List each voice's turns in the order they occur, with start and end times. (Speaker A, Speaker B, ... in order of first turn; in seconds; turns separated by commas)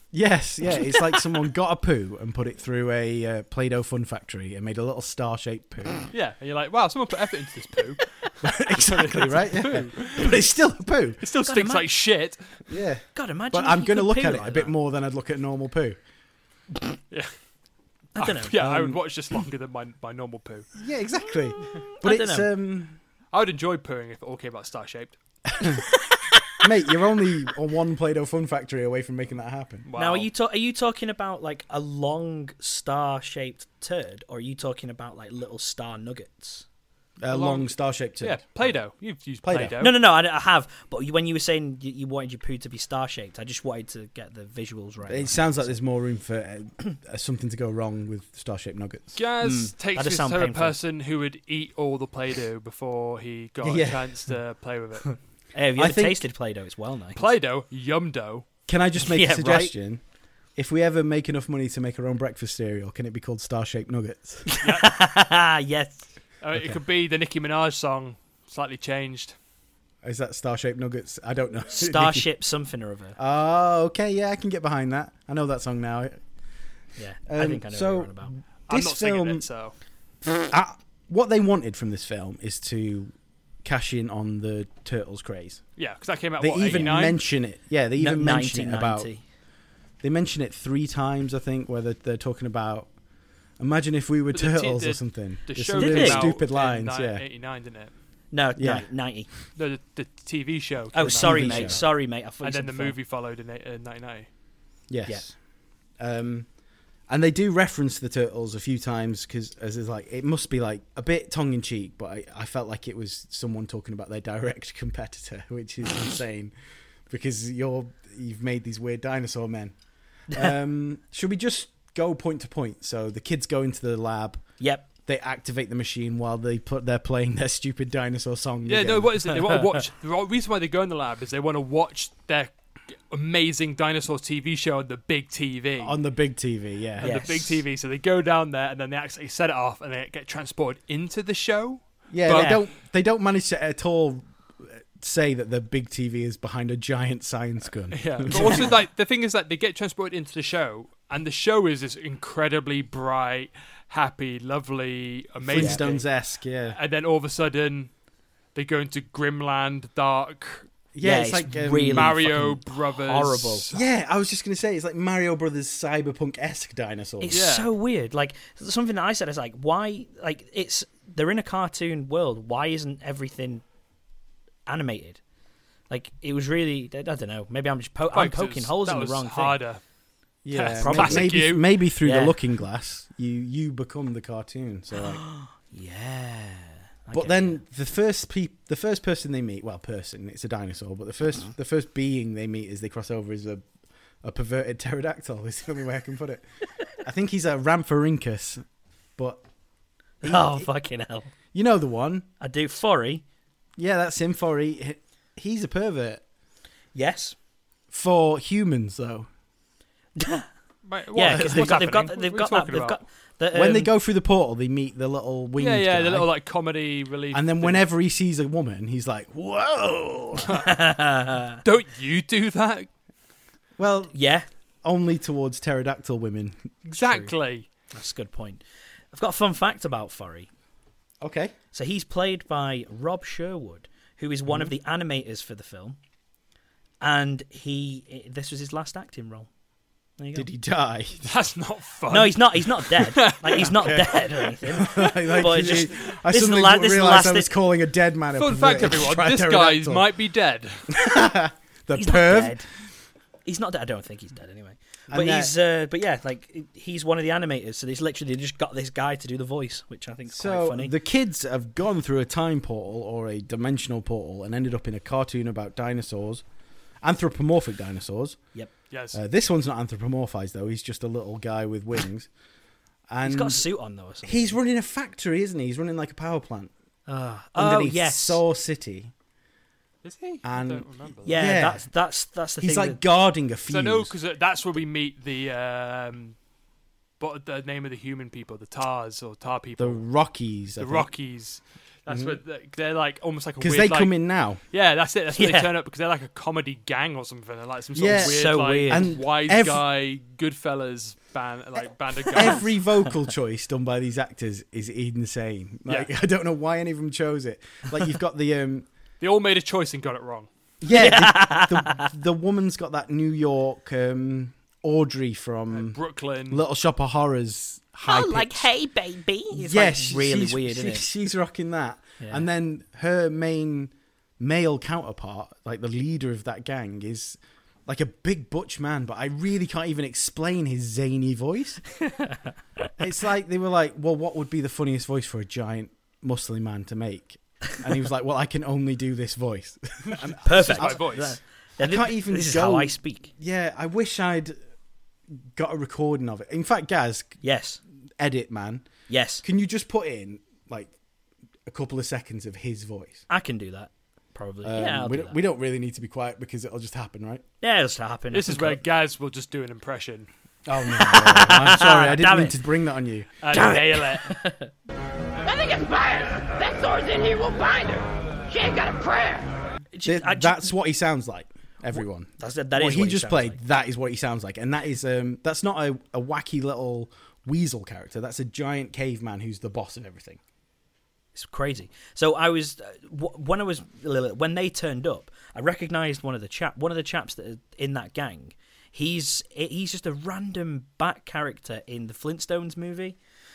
Speaker A: 0.1-6.1, Speaker B: 6.1-10.4, Speaker A: 8.4-11.2, Speaker B: 11.2-12.4, Speaker C: 11.4-11.9, Speaker A: 12.7-16.0, Speaker C: 13.1-14.7, Speaker C: 18.1-18.7, Speaker B: 18.2-20.7, Speaker A: 18.6-19.0, Speaker A: 20.8-23.0, Speaker C: 22.0-22.5, Speaker B: 23.3-25.2, Speaker A: 26.6-29.9, Speaker B: 29.9-30.3, Speaker C: 29.9-36.6, Speaker A: 37.2-38.7, Speaker B: 37.3-40.0, Speaker A: 39.4-39.8, Speaker C: 39.8-45.7, Speaker A: 45.1-49.2, Speaker B: 49.1-55.2, Speaker C: 49.4-50.8, Speaker A: 53.6-54.2, Speaker C: 55.5-57.2, Speaker A: 55.8-56.2, Speaker B: 57.1-58.5, Speaker A: 58.7-60.0, Speaker C: 59.0-59.7, Speaker A: 60.5-64.5, Speaker C: 64.5-66.0, Speaker B: 64.6-64.9, Speaker B: 66.4-69.3, Speaker A: 66.5-66.8, Speaker A: 70.0-72.3, Speaker C: 71.7-73.2, Speaker A: 73.2-76.2, Speaker C: 77.0-78.3, Speaker A: 77.3-79.5, Speaker B: 78.7-79.7, Speaker A: 80.4-85.6, Speaker B: 85.8-87.2, Speaker A: 86.4-89.1, Speaker C: 88.0-89.2, Speaker A: 90.0-92.9, Speaker A: 93.6-97.2, Speaker B: 94.3-97.9, Speaker C: 95.8-96.3, Speaker C: 98.3-99.3, Speaker A: 98.6-98.9, Speaker B: 99.5-104.3, Speaker C: 100.9-102.9, Speaker A: 101.0-101.8, Speaker A: 104.9-105.4, Speaker A: 106.0-106.5, Speaker A: 107.1-116.5, Speaker A: 117.1-119.8, Speaker A: 120.3-124.4, Speaker C: 124.6-124.8, Speaker A: 125.0-129.4, Speaker B: 128.7-136.0, Speaker A: 135.8-137.4, Speaker B: 137.0-142.6, Speaker C: 137.0-137.6, Speaker A: 142.1-148.7, Speaker B: 147.9-156.1, Speaker C: 148.3-148.7, Speaker A: 155.4-156.8, Speaker C: 155.5-155.8, Speaker B: 156.7-157.9, Speaker B: 158.5-160.7, Speaker A: 160.9-162.3, Speaker C: 161.0-163.7, Speaker B: 161.9-163.8, Speaker A: 163.7-167.4, Speaker C: 167.2-173.6, Speaker B: 167.3-167.7, Speaker C: 174.7-175.2, Speaker C: 175.9-179.6, Speaker B: 178.1-179.8, Speaker A: 180.4-185.2, Speaker B: 180.5-181.6, Speaker C: 180.8-181.5, Speaker C: 182.0-182.4, Speaker C: 185.0-187.6, Speaker A: 187.1-193.6, Speaker A: 194.2-196.4, Speaker A: 197.0-198.6, Speaker A: 199.2-199.4, Speaker A: 200.2-200.7, Speaker C: 200.2-201.3, Speaker A: 201.5-202.3, Speaker C: 202.4-203.2, Speaker A: 203.8-206.2, Speaker C: 206.9-207.3, Speaker A: 207.9-209.3, Speaker C: 210.2-210.5, Speaker B: 210.8-213.0, Speaker C: 211.1-213.9, Speaker A: 213.5-216.3, Speaker B: 215.6-217.8, Speaker A: 217.3-220.5, Speaker B: 220.4-220.7, Speaker C: 220.5-221.6, Speaker B: 221.6-222.9, Speaker A: 223.8-224.1, Speaker C: 224.1-224.4, Speaker A: 224.8-226.7, Speaker B: 226.8-227.7, Speaker C: 227.0-227.3, Speaker C: 227.9-230.5, Speaker A: 231.2-231.5, Speaker C: 231.7-236.0, Speaker C: 237.0-239.5, Speaker C: 240.2-240.5, Speaker A: 240.3-241.4, Speaker B: 241.2-244.5, Speaker C: 242.1-247.5, Speaker A: 243.7-244.1, Speaker A: 244.7-250.1, Speaker B: 248.3-250.9, Speaker A: 250.9-252.6, Speaker C: 251.9-252.7, Speaker C: 253.4-260.9, Speaker A: 255.1-255.5, Speaker A: 260.3-266.4, Speaker A: 267.0-268.4, Speaker B: 268.9-269.2, Speaker A: 269.1-272.3, Speaker A: 273.1-273.6, Speaker C: 273.2-274.6, Speaker A: 274.2-276.7, Speaker C: 277.1-278.4, Speaker A: 277.6-279.1, Speaker B: 280.0-281.5, Speaker A: 280.4-281.9, Speaker C: 281.2-283.0, Speaker A: 282.6-284.1, Speaker B: 283.7-286.4, Speaker B: 287.2-290.0, Speaker A: 289.8-291.1, Speaker B: 290.8-302.7, Speaker A: 292.1-292.4, Speaker A: 293.6-294.6, Speaker C: 295.3-295.7, Speaker A: 297.9-299.8, Speaker C: 298.1-299.1, Speaker A: 302.3-308.9, Speaker B: 305.9-306.1, Speaker B: 309.2-310.5, Speaker A: 310.8-318.7, Speaker C: 310.9-312.1, Speaker B: 315.7-316.6, Speaker C: 318.1-321.1, Speaker A: 319.5-331.8, Speaker C: 322.2-322.4, Speaker C: 332.0-332.9, Speaker A: 333.0-344.6, Speaker C: 340.4-343.3, Speaker B: 340.5-341.4, Speaker A: 345.5-347.4, Speaker C: 347.4-347.8, Speaker A: 348.2-348.9, Speaker C: 349.1-349.4, Speaker A: 349.4-350.9, Speaker A: 351.7-353.2, Speaker C: 353.3-355.4, Speaker A: 354.6-357.4, Speaker C: 357.6-358.8, Speaker B: 358.3-360.3, Speaker A: 360.6-363.3, Speaker C: 360.9-362.6, Speaker B: 363.4-364.4, Speaker C: 363.5-364.7, Speaker D: 365.4-369.5, Speaker C: 369.9-370.7, Speaker A: 370.0-380.4, Speaker C: 371.9-373.6, Speaker C: 381.3-393.2